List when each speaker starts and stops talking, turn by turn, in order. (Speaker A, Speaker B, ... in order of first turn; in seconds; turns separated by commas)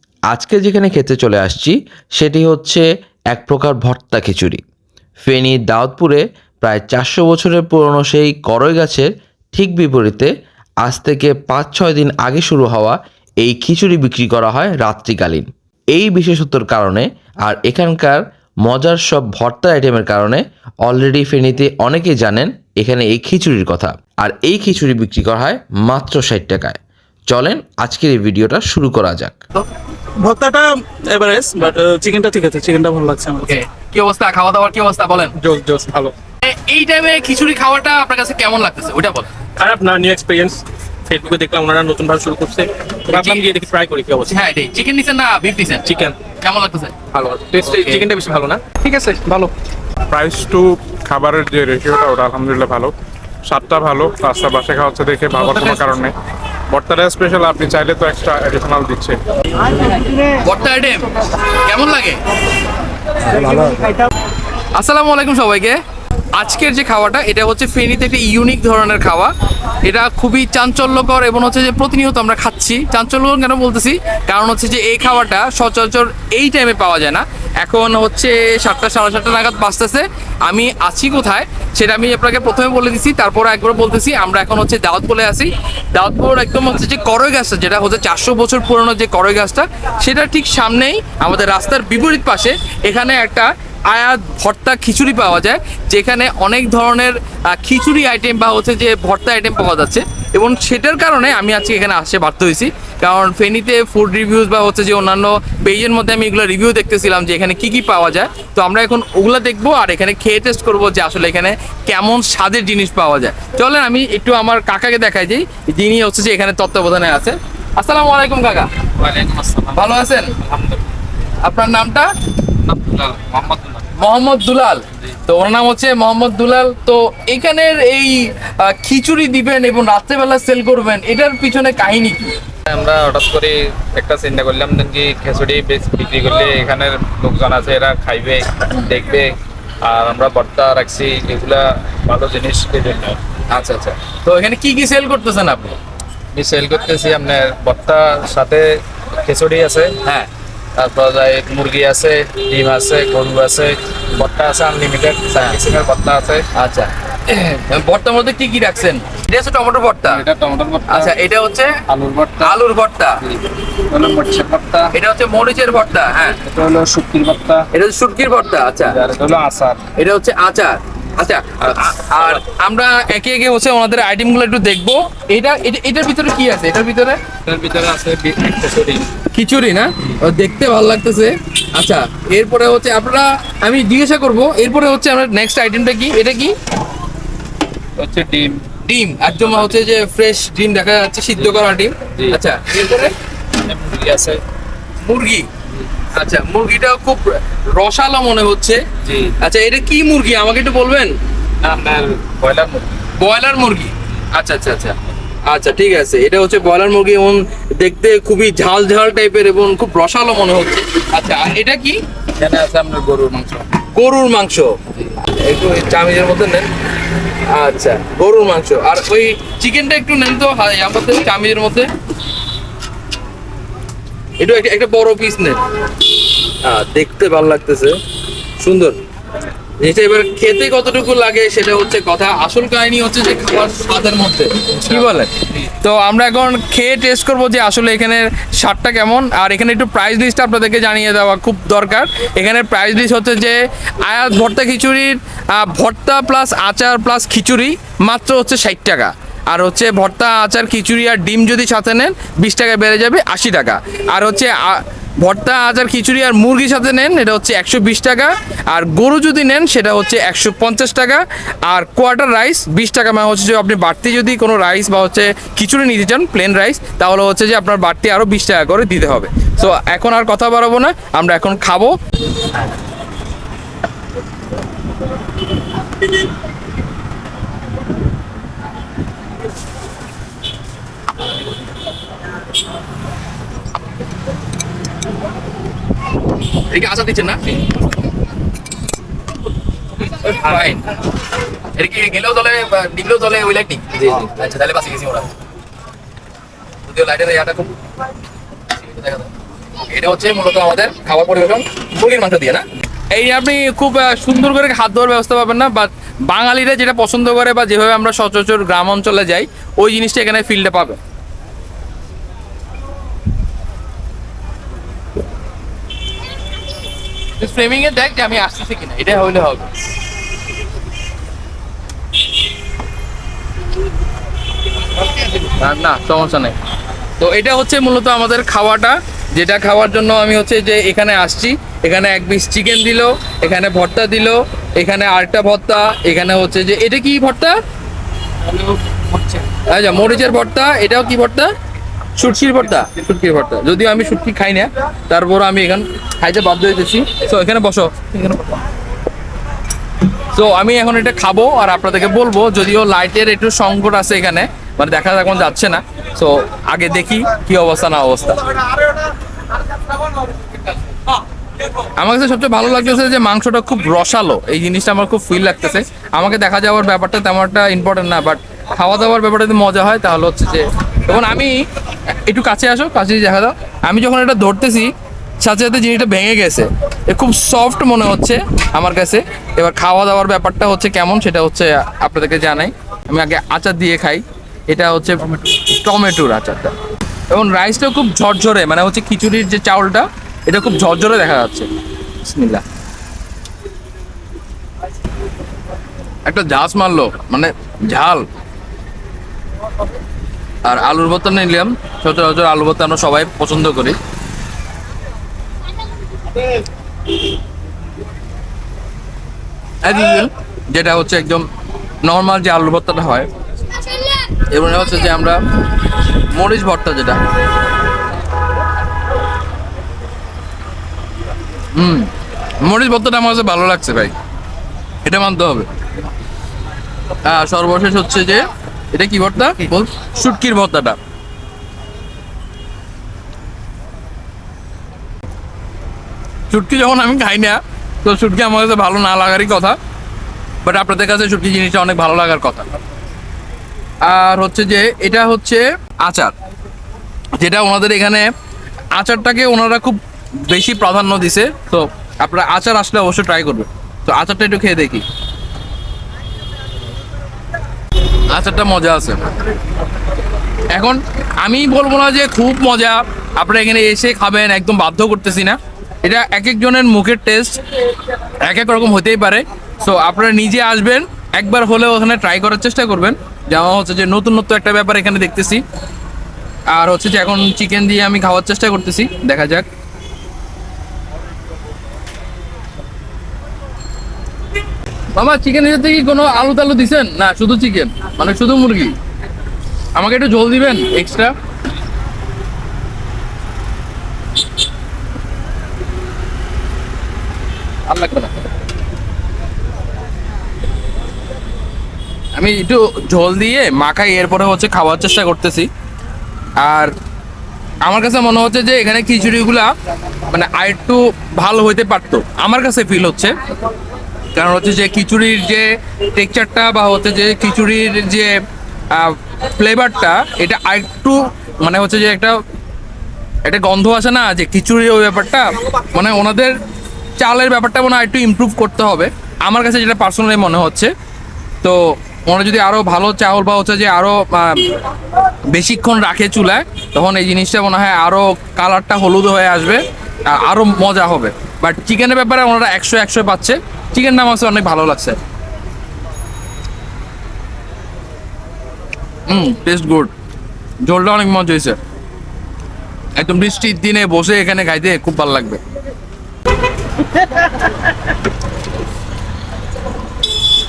Speaker A: 0.3-4.6, Speaker A: 5.2-10.3, Speaker A: 10.8-29.4, Speaker B: 30.3-33.4, Speaker C: 31.6-31.9, Speaker D: 33.4-35.4, Speaker C: 35.4-36.1, Speaker D: 36.4-39.3, Speaker B: 39.7-44.3, Speaker D: 43.1-43.5, Speaker C: 43.1-43.4, Speaker D: 44.3-45.9, Speaker B: 45.9-46.2, Speaker D: 46.4-47.0, Speaker C: 47.1-48.2, Speaker D: 47.6-49.5, Speaker E: 50.1-52.9, Speaker E: 53.5-56.1, Speaker E: 56.7-59.2, Speaker D: 60.4-62.2, Speaker D: 64.8-65.8, Speaker D: 66.3-118.7, Speaker C: 119.0-120.8, Speaker D: 119.7-120.3, Speaker D: 121.4-122.1, Speaker C: 122.6-123.8, Speaker D: 124.0-132.4, Speaker C: 132.7-143.2, Speaker D: 143.5-145.8, Speaker C: 146.3-150.0, Speaker C: 150.8-156.5, Speaker D: 156.6-160.2, Speaker C: 160.1-161.1, Speaker D: 160.9-161.7, Speaker C: 161.9-162.5, Speaker D: 162.4-163.2, Speaker C: 163.9-164.9, Speaker D: 164.9-166.4, Speaker C: 166.5-167.7, Speaker D: 167.7-169.0, Speaker C: 168.9-169.9, Speaker D: 170.0-177.2, Speaker C: 177.5-179.1, Speaker D: 179.3-186.6, Speaker C: 188.0-188.7, Speaker D: 188.8-193.1, Speaker C: 193.6-194.4, Speaker D: 195.0-195.5, Speaker D: 196.1-198.8, Speaker C: 199.1-199.3, Speaker D: 199.4-201.2, Speaker C: 201.6-202.9, Speaker D: 203.2-205.0, Speaker D: 205.5-212.0, Speaker C: 212.4-213.7, Speaker D: 213.9-216.7, Speaker D: 217.5-221.9, Speaker D: 224.4-225.6, Speaker D: 226.6-228.0, Speaker D: 228.6-229.0, Speaker D: 229.8-271.9, Speaker D: 286.7-287.4, Speaker D: 290.2-290.9, Speaker D: 291.7-295.3, Speaker D: 296.9-297.7, Speaker D: 298.7-311.0, Speaker D: 317.4-319.7, Speaker D: 325.4-326.6, Speaker D: 327.2-337.6, Speaker D: 339.5-341.5, Speaker D: 342.2-348.6, Speaker D: 350.3-358.8, Speaker D: 362.0-386.8, Speaker D: 387.3-391.7, Speaker D: 392.2-392.6, Speaker D: 396.2-398.2, Speaker D: 400.6-404.0, Speaker D: 409.8-411.5, Speaker D: 412.0-413.3, Speaker D: 414.3-415.4, Speaker D: 416.3-417.2, Speaker D: 421.8-422.1, Speaker D: 422.6-424.1, Speaker D: 425.0-425.7, Speaker D: 427.2-431.0, Speaker D: 436.5-439.8, Speaker D: 440.6-442.7, Speaker D: 444.0-446.3, Speaker D: 447.4-448.3, Speaker D: 448.9-455.1, Speaker D: 458.3-459.3, Speaker D: 460.7-467.6, Speaker D: 468.4-475.6, Speaker D: 476.7-479.7, Speaker D: 485.1-489.0, Speaker D: 489.9-491.3, Speaker D: 497.9-498.5, Speaker D: 502.4-505.7, Speaker D: 506.6-506.9, Speaker D: 507.8-509.7, Speaker D: 510.3-513.4, Speaker D: 514.4-518.4, Speaker D: 518.9-522.4, Speaker D: 523.4-526.5, Speaker D: 527.2-530.9, Speaker D: 531.6-534.8, Speaker D: 535.5-545.2, Speaker D: 549.3-550.1, Speaker D: 550.8-551.8, Speaker D: 553.2-555.6